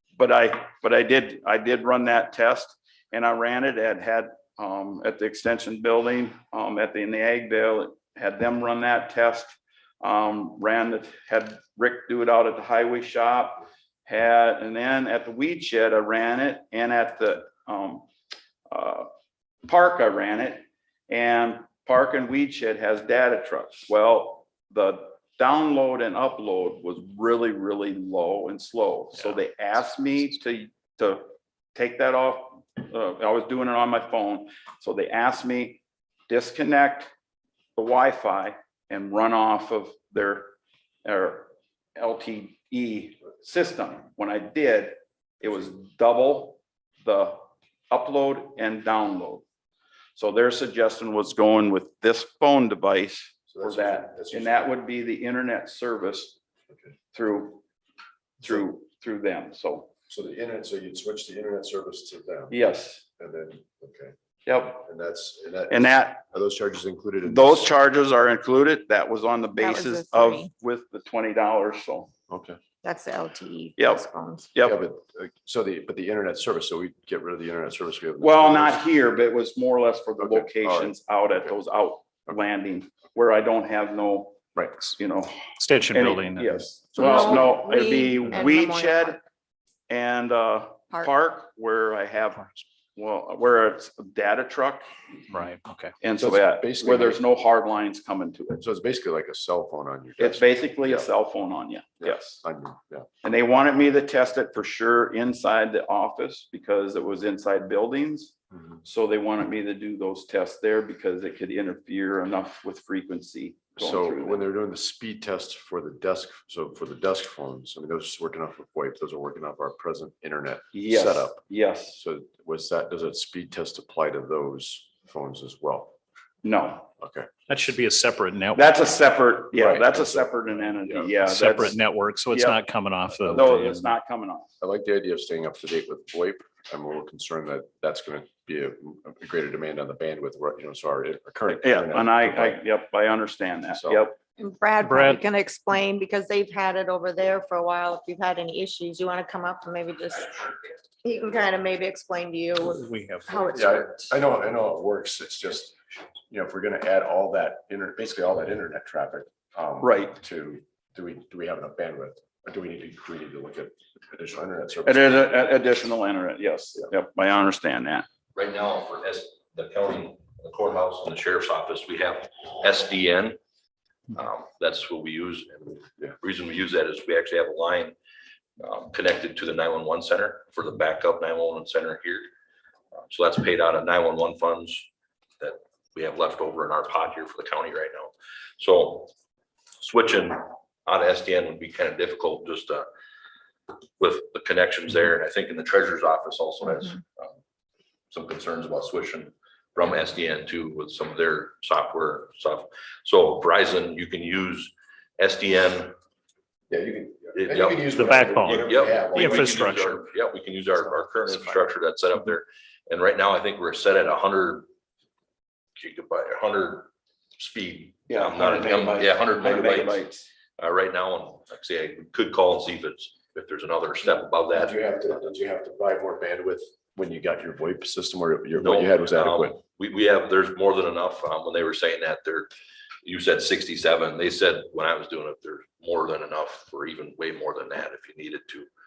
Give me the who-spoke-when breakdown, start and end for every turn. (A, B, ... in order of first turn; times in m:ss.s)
0:00.2-0:18.1 A
0:18.7-0:19.1 A
0:19.6-0:37.1 A
0:37.8-0:49.4 A
0:50.2-0:56.4 A
0:53.5-0:54.7 B
0:57.1-0:57.6 A
0:58.4-0:59.9 A
1:00.1-1:02.6 B
1:02.5-1:03.0 A
1:03.2-1:04.1 B
1:04.5-1:04.8 A
1:04.7-1:07.7 B
1:05.7-1:06.2 A
1:07.2-1:12.1 A
1:09.6-1:10.5 C
1:12.3-1:12.6 B
1:12.8-1:14.5 C
1:13.8-1:14.0 A
1:14.5-1:14.8 A
1:14.6-1:18.8 B
1:18.2-1:24.4 A
1:20.2-1:21.5 B
1:25.0-1:29.2 A
1:25.6-1:26.6 D
1:26.6-1:27.6 B
1:27.0-1:29.2 C
1:29.9-1:34.9 A
1:35.3-1:35.9 D
1:36.0-1:38.6 A
1:36.2-1:37.2 B
1:38.6-1:41.1 B
1:40.2-1:42.4 A
1:42.0-1:43.1 B
1:43.2-1:54.4 A
1:53.8-2:01.4 B
2:00.7-2:02.0 A
2:02.0-2:06.0 B
2:06.4-2:06.9 A
2:07.0-2:07.3 B
2:07.5-2:08.8 D
2:08.6-2:11.8 A
2:09.5-2:11.2 B
2:11.2-2:13.9 D
2:12.3-2:12.6 A
2:13.2-2:13.5 B
2:13.3-2:14.5 A
2:14.6-2:22.6 B
2:21.5-2:24.2 A
2:23.7-2:24.1 B
2:24.4-2:34.1 C
2:24.8-2:25.2 D
2:32.6-2:33.8 D
2:33.5-2:45.3 B
2:39.8-2:40.2 A
2:44.8-2:48.1 A
2:48.3-2:53.4 E
2:54.1-2:58.0 E
2:58.6-3:02.3 E
3:03.1-3:04.9 E
3:05.4-3:09.1 E
3:09.8-3:12.9 E
3:14.0-3:17.3 E
3:18.1-3:26.0 E
3:26.7-3:29.7 B
3:27.4-3:28.0 E
3:27.9-3:30.0 D
3:28.5-3:34.7 E
3:35.8-3:40.0 E
3:38.1-3:40.2 A
3:40.6-3:44.8 E
3:44.5-3:49.6 B
3:48.6-3:52.5 E
3:53.0-3:58.7 E